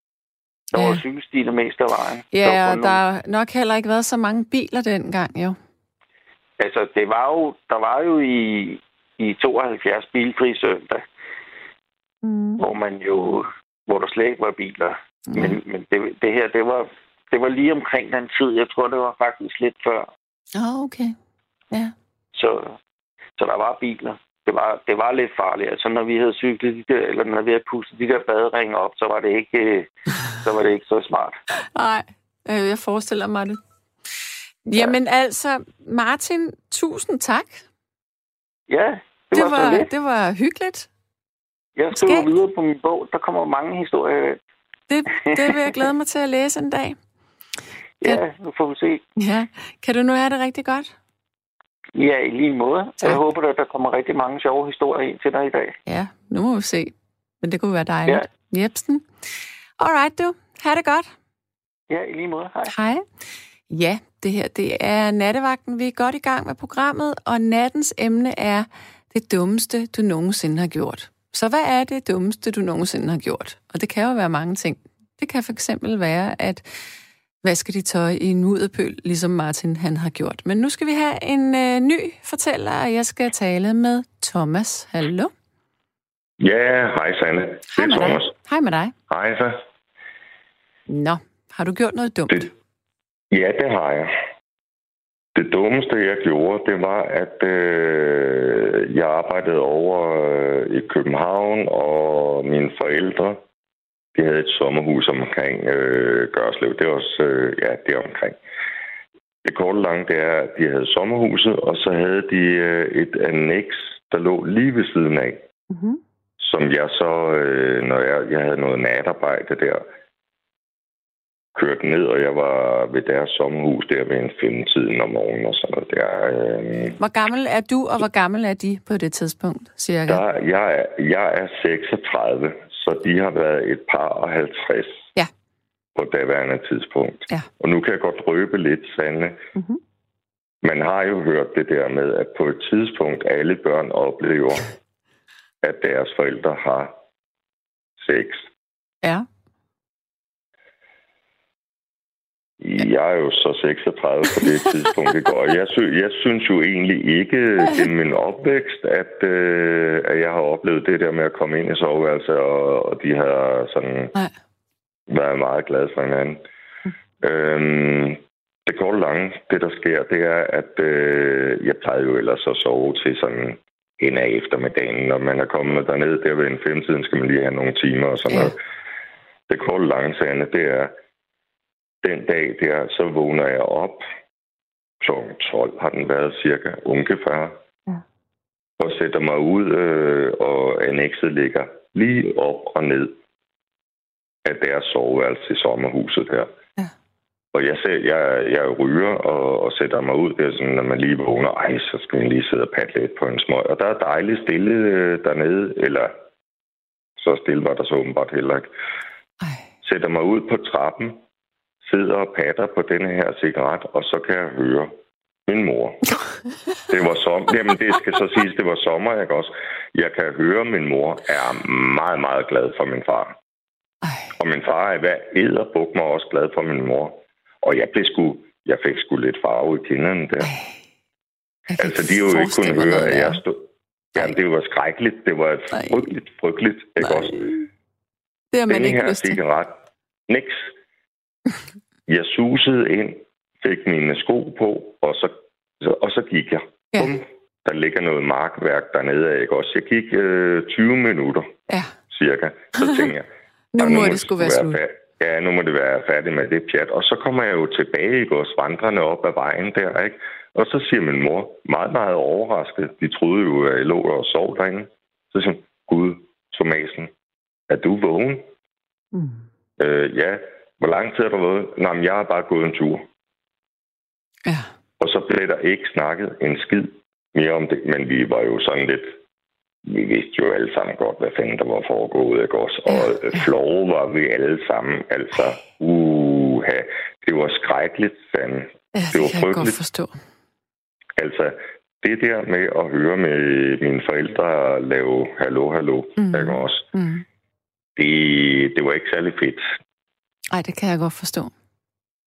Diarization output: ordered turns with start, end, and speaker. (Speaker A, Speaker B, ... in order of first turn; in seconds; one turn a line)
Speaker A: 0.7-1.0
Speaker B: 0.8-3.0
Speaker A: 2.3-5.6
Speaker B: 6.6-11.1
Speaker A: 12.2-12.6
Speaker B: 12.6-20.1
Speaker A: 15.3-15.6
Speaker A: 20.6-21.2
Speaker B: 22.3-22.8
Speaker B: 23.4-31.4
Speaker A: 31.8-33.6
Speaker A: 34.7-37.6
Speaker B: 38.7-39.9
Speaker A: 39.3-40.9
Speaker B: 41.8-44.4
Speaker A: 41.9-42.3
Speaker A: 44.9-47.0
Speaker B: 45.3-45.7
Speaker B: 48.0-49.0
Speaker A: 49.2-50.9
Speaker B: 52.0-55.8
Speaker A: 55.9-59.1
Speaker A: 59.8-61.1
Speaker B: 61.9-62.8
Speaker A: 62.7-63.0
Speaker A: 63.7-76.8
Speaker A: 77.4-85.3
Speaker C: 86.4-88.3
Speaker A: 87.7-88.9
Speaker C: 89.1-89.6
Speaker A: 90.9-92.5
Speaker C: 93.3-94.1
Speaker C: 95.3-103.4
Speaker C: 104.2-108.4
Speaker C: 109.4-115.4
Speaker A: 115.7-116.0
Speaker C: 116.4-119.8
Speaker C: 121.5-127.0
Speaker A: 127.0-130.2
Speaker C: 130.1-135.1
Speaker C: 135.9-139.4
Speaker C: 140.6-144.7
Speaker C: 145.6-146.9
Speaker C: 148.0-148.5
Speaker C: 152.6-164.1
Speaker C: 165.1-166.4
Speaker C: 167.2-178.6
Speaker A: 178.3-178.6
Speaker C: 179.5-180.9
Speaker C: 182.0-184.0
Speaker C: 185.0-187.6
Speaker C: 188.8-193.2
Speaker C: 194.4-196.5
Speaker C: 197.5-206.1
Speaker C: 207.2-208.7
Speaker A: 209.4-209.7
Speaker C: 209.8-211.2
Speaker C: 211.8-216.1
Speaker C: 216.9-223.4
Speaker A: 224.0-224.3
Speaker C: 224.3-230.5
Speaker A: 230.4-230.8
Speaker A: 231.7-233.4
Speaker C: 231.8-237.5
Speaker A: 235.7-236.1
Speaker A: 237.0-237.7
Speaker A: 238.5-239.4
Speaker C: 238.7-239.8
Speaker C: 240.3-240.7
Speaker C: 242.1-251.5
Speaker A: 246.9-247.2
Speaker A: 251.7-251.9
Speaker C: 252.1-267.1
Speaker A: 253.7-254.8
Speaker C: 267.7-268.5
Speaker A: 269.1-269.4
Speaker C: 269.8-273.1
Speaker C: 275.0-279.2
Speaker C: 279.9-289.8
Speaker A: 282.9-283.4
Speaker A: 288.9-290.2
Speaker C: 291.2-296.9
Speaker A: 296.2-297.2
Speaker C: 298.0-299.7
Speaker A: 300.5-301.5